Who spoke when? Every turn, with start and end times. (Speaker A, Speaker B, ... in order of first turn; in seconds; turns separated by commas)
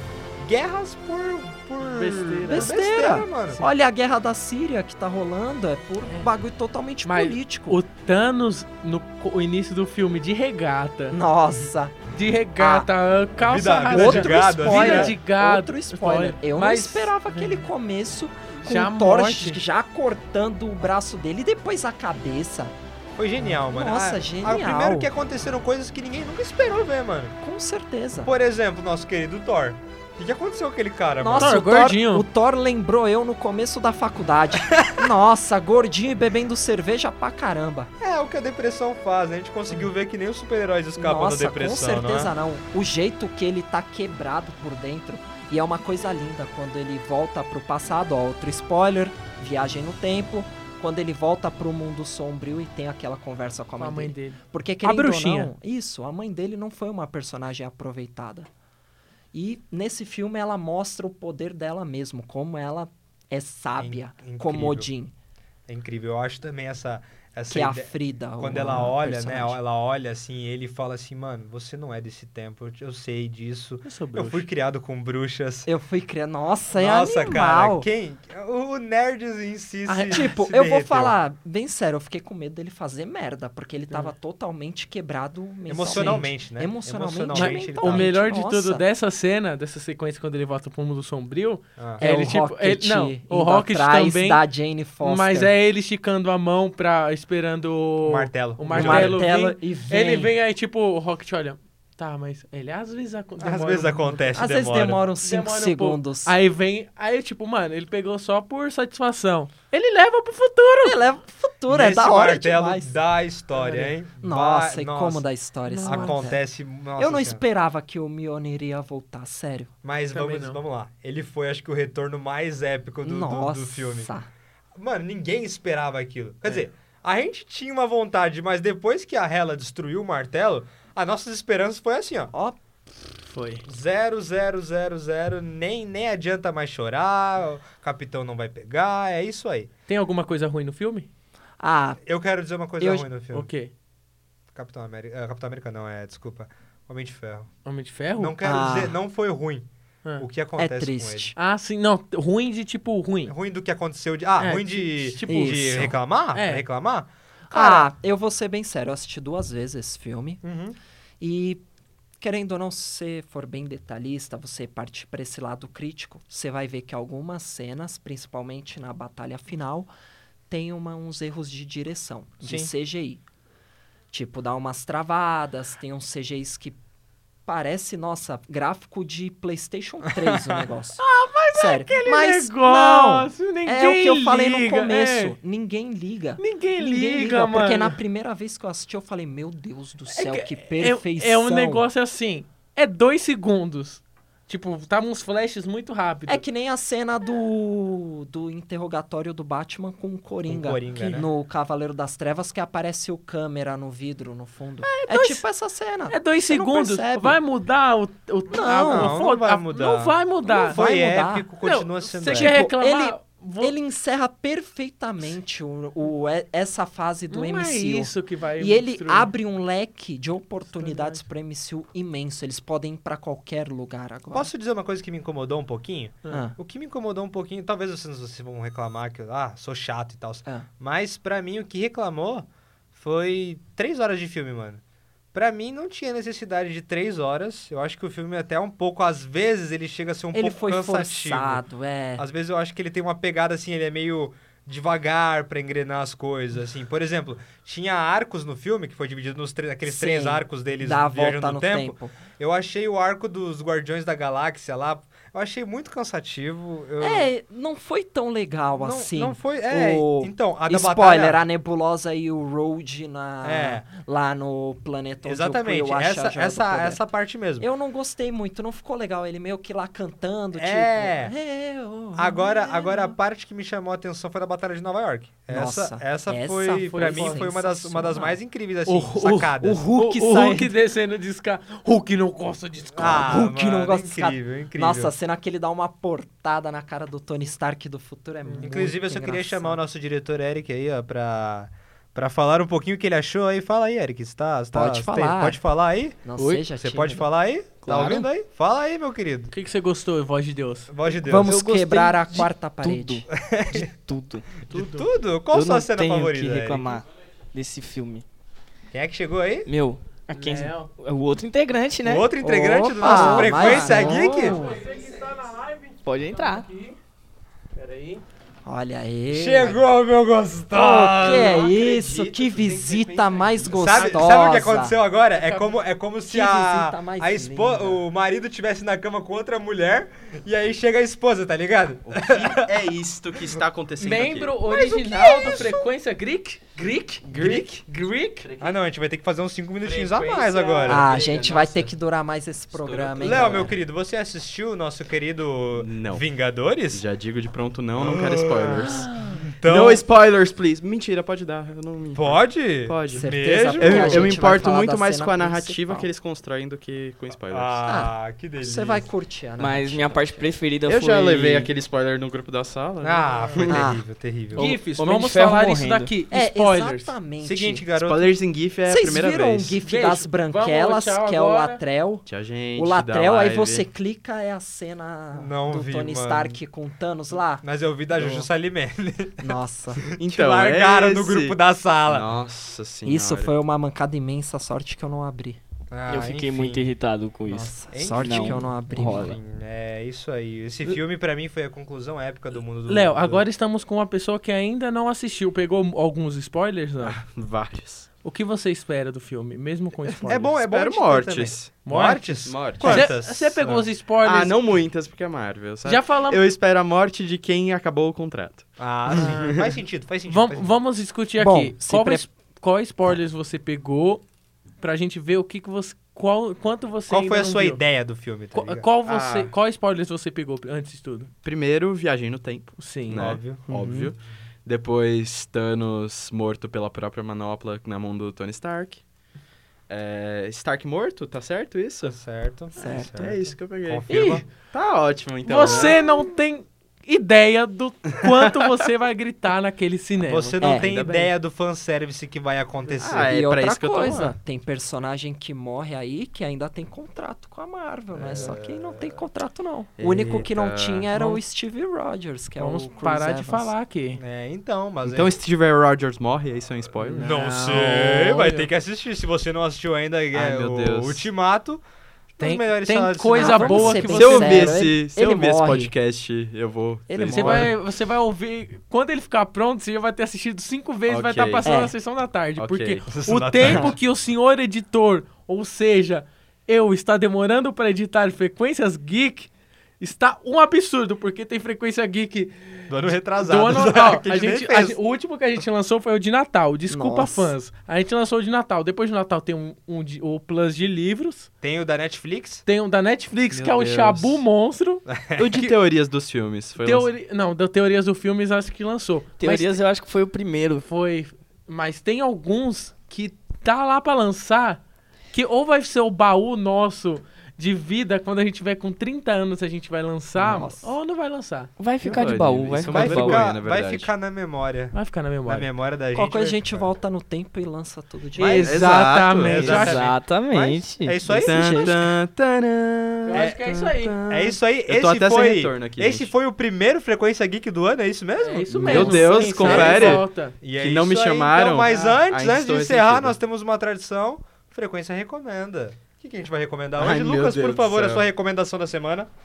Speaker A: 0.4-3.6, Speaker B: 1.8-2.7, Speaker C: 2.5-7.8, Speaker B: 7.0-11.2, Speaker C: 11.1-12.1, Speaker B: 12.1-17.7, Speaker C: 12.6-12.9, Speaker A: 13.4-15.2, Speaker C: 13.9-22.8, Speaker B: 18.5-19.6, Speaker A: 23.2-27.4, Speaker C: 23.5-25.1, Speaker C: 27.4-28.3, Speaker A: 28.2-31.6, Speaker C: 31.2-37.9, Speaker B: 31.3-32.3, Speaker A: 34.5-35.1, Speaker A: 38.0-42.3, Speaker C: 41.0-58.5, Speaker B: 53.8-55.5, Speaker C: 59.3-65.1, Speaker A: 63.8-64.9, Speaker A: 65.7-75.7, Speaker C: 67.5-69.6, Speaker B: 73.8-74.5, Speaker C: 75.7-77.9, Speaker A: 76.7-81.2, Speaker B: 79.9-80.3, Speaker C: 80.1-88.8, Speaker A: 85.7-88.1, Speaker B: 85.9-86.2, Speaker B: 87.3-94.5, Speaker A: 91.8-92.0, Speaker C: 92.0-95.5, Speaker B: 95.0-104.6, Speaker A: 98.0-99.2, Speaker C: 98.7-100.3, Speaker A: 103.4-105.0, Speaker C: 104.3-106.4, Speaker B: 105.2-111.0, Speaker C: 110.8-113.0, Speaker A: 111.7-115.3, Speaker C: 113.6-116.4, Speaker B: 115.7-116.3, Speaker A: 115.8-117.4, Speaker C: 117.0-119.7, Speaker A: 119.8-124.1, Speaker B: 120.1-120.6, Speaker C: 123.0-124.3, Speaker A: 124.8-132.3, Speaker C: 132.3-132.6, Speaker B: 133.3-133.7, Speaker A: 133.7-139.7, Speaker B: 139.9-141.1, Speaker C: 141.6-142.0, Speaker A: 142.0-143.5, Speaker C: 142.8-143.1, Speaker B: 143.3-143.7, Speaker A: 144.5-147.5, Speaker B: 147.7-148.4, Speaker A: 148.2-151.3, Speaker C: 148.4-149.0, Speaker C: 150.6-151.3, Speaker B: 151.4-153.3, Speaker A: 153.3-157.9, Speaker B: 154.4-156.7, Speaker C: 155.3-156.0, Speaker C: 157.5-160.4, Speaker A: 160.4-160.8, Speaker C: 161.2-161.6, Speaker C: 162.2-169.9, Speaker C: 170.5-173.2, Speaker A: 172.4-172.7, Speaker C: 174.1-176.8, Speaker C: 177.5-181.0, Speaker B: 181.0-185.4, Speaker C: 181.5-191.9, Speaker B: 186.4-188.0, Speaker B: 190.1-196.4, Speaker C: 196.3-207.4, Speaker A: 200.5-201.3, Speaker B: 204.8-205.4, Speaker B: 206.1-210.8, Speaker C: 208.5-209.2, Speaker A: 208.7-212.6, Speaker C: 210.5-211.5, Speaker B: 211.6-213.7, Speaker C: 212.3-224.5, Speaker B: 217.3-219.3, Speaker B: 220.7-221.2, Speaker A: 224.3-234.8, Speaker C: 226.3-226.6, Speaker A: 235.3-241.6, Speaker C: 240.3-242.2, Speaker A: 242.2-257.3, Speaker C: 249.8-252.2, Speaker C: 257.0-267.1, Speaker A: 258.8-261.4, Speaker A: 263.4-263.9, Speaker A: 265.2-267.7, Speaker C: 267.6-273.1, Speaker A: 270.5-271.3, Speaker A: 272.1-279.8, Speaker C: 275.5-278.4, Speaker B: 276.9-277.4, Speaker B: 278.9-283.4, Speaker C: 279.8-280.7, Speaker A: 282.9-285.1, Speaker C: 283.0-289.8, Speaker A: 288.5-299.5, Speaker C: 294.7-295.6, Speaker C: 296.2-297.3, Speaker D: 296.4-296.7, Speaker D: 297.8-298.3, Speaker C: 297.9-298.2, Speaker B: 299.5-300.9, Speaker A: 300.9-301.6, Speaker C: 301.2-303.2, Speaker D: 301.4-304.7, Speaker A: 303.5-303.9, Speaker B: 304.7-305.1, Speaker A: 304.7-307.0, Speaker D: 305.5-308.2, Speaker A: 308.9-309.7, Speaker D: 309.7-314.6, Speaker B: 310.3-310.9, Speaker A: 312.0-314.6, Speaker C: 313.0-314.8, Speaker B: 314.4-317.0, Speaker D: 316.1-316.7, Speaker B: 317.8-318.2, Speaker C: 318.6-319.8, Speaker A: 319.3-321.8, Speaker C: 320.7-325.0, Speaker E: 321.6-323.5, Speaker A: 323.7-332.7, Speaker B: 325.4-325.8, Speaker C: 326.2-328.0, Speaker E: 332.1-334.7, Speaker B: 334.0-338.5, Speaker C: 334.7-335.8, Speaker A: 337.4-337.6, Speaker E: 337.4-337.6, Speaker E: 338.4-338.8, Speaker A: 338.6-341.1, Speaker D: 339.9-340.1, Speaker E: 340.1-341.9, Speaker D: 340.8-341.3, Speaker C: 340.9-343.8, Speaker E: 342.7-343.7, Speaker A: 343.2-347.0, Speaker E: 345.7-346.3, Speaker E: 346.9-349.1, Speaker A: 348.0-350.0, Speaker C: 348.9-349.2, Speaker E: 349.7-357.8, Speaker A: 352.1-354.4, Speaker C: 353.1-356.1, Speaker A: 357.5-359.1, Speaker C: 357.8-360.5, Speaker D: 359.6-361.7, Speaker E: 360.8-363.9, Speaker A: 363.0-364.8, Speaker C: 363.7-364.0, Speaker D: 364.5-366.1, Speaker B: 364.5-367.1, Speaker C: 366.3-367.9, Speaker A: 367.4-368.3, Speaker E: 368.0-369.8, Speaker C: 368.9-377.6, Speaker B: 369.8-371.8, Speaker E: 372.3-373.9, Speaker A: 375.3-376.6, Speaker A: 377.6-382.3, Speaker E: 378.2-378.4, Speaker C: 379.4-380.0, Speaker E: 380.1-383.5, Speaker C: 383.1-385.6, Speaker A: 385.9-386.9, Speaker D: 386.1-389.4, Speaker C: 387.5-389.4, Speaker A: 387.9-393.5, Speaker B: 392.9-397.2, Speaker E: 397.0-398.1, Speaker B: 398.2-400.5, Speaker A: 400.3-403.9, Speaker E: 400.6-401.8, Speaker B: 401.9-404.7, Speaker E: 402.4-403.1, Speaker E: 404.2-409.8, Speaker B: 405.9-406.5, Speaker A: 408.8-410.7, Speaker B: 410.3-414.2, Speaker C: 411.4-412.2, Speaker B: 414.8-417.8, Speaker A: 417.1-418.9, Speaker B: 418.5-421.3, Speaker E: 419.1-419.5, Speaker E: 421.4-429.0, Speaker B: 422.8-423.3, Speaker A: 423.1-423.7, Speaker E: 429.9-432.2, Speaker A: 432.1-434.4, Speaker C: 432.8-433.1, Speaker E: 432.9-436.0, Speaker B: 434.1-434.4, Speaker B: 435.4-440.6, Speaker A: 440.2-443.3, Speaker C: 440.6-440.9, Speaker E: 440.7-441.3, Speaker E: 443.0-444.4, Speaker C: 443.3-453.7, Speaker A: 448.1-449.2, Speaker E: 450.0-451.2, Speaker B: 451.1-451.4, Speaker B: 452.6-454.2, Speaker A: 454.2-455.3, Speaker E: 455.0-457.3, Speaker B: 457.0-458.7, Speaker A: 457.2-461.8, Speaker E: 460.3-461.3, Speaker A: 462.4-464.0, Speaker B: 462.4-464.9, Speaker C: 463.3-465.9, Speaker E: 463.6-467.8, Speaker C: 467.1-467.7, Speaker B: 467.3-491.5, Speaker E: 471.1-471.7, Speaker C: 471.6-471.9, Speaker E: 472.6-473.1, Speaker A: 473.1-474.0, Speaker C: 473.6-473.9, Speaker A: 482.9-485.0, Speaker C: 486.9-487.6, Speaker A: 491.6-492.6, Speaker B: 492.7-495.0, Speaker D: 493.5-493.9, Speaker E: 493.6-494.4, Speaker A: 495.1-495.7, Speaker E: 495.4-497.1, Speaker B: 496.8-499.8, Speaker D: 499.4-500.9, Speaker B: 500.8-504.8, Speaker B: 505.3-511.7, Speaker C: 510.4-510.9, Speaker D: 511.8-513.5, Speaker E: 512.0-514.1, Speaker A: 512.8-516.9, Speaker B: 514.9-515.7, Speaker C: 516.1-518.8, Speaker B: 518.4-520.1, Speaker A: 518.4-518.7, Speaker E: 518.6-519.7, Speaker A: 519.4-522.1, Speaker D: 519.6-521.9, Speaker E: 521.4-526.3, Speaker B: 523.3-524.2, Speaker A: 523.3-523.6, Speaker A: 524.3-539.3, Speaker B: 528.4-530.6, Speaker D: 528.7-529.5, Speaker E: 528.8-533.4, Speaker B: 531.9-532.2, Speaker E: 537.0-538.3